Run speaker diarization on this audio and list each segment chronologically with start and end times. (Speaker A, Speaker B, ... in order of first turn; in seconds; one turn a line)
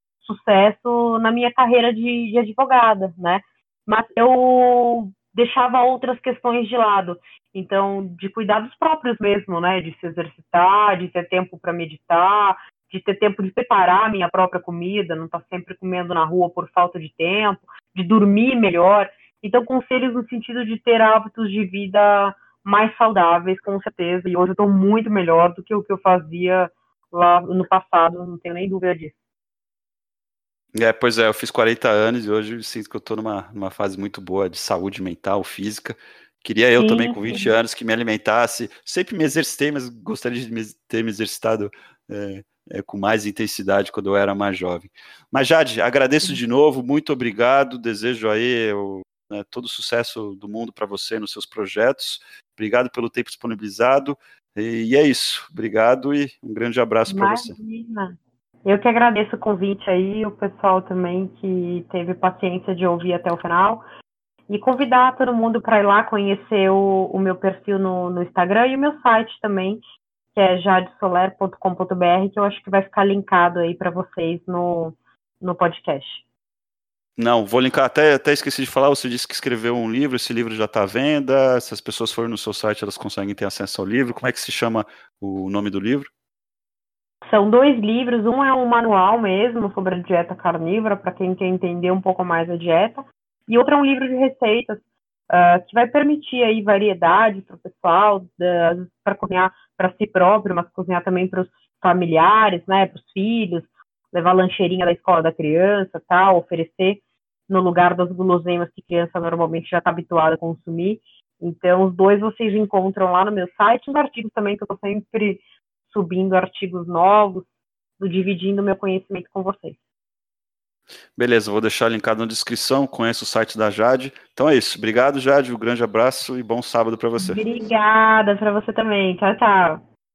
Speaker A: 0.2-29.2
Speaker B: 30.7-57.5
Speaker A: 36.8-37.5
Speaker A: 57.1-58.1
Speaker A: 58.6-63.8
Speaker A: 64.5-69.8
Speaker A: 70.3-76.2
Speaker B: 77.2-86.1
Speaker A: 87.3-119.8
Speaker B: 121.2-127.4
Speaker A: 127.2-129.8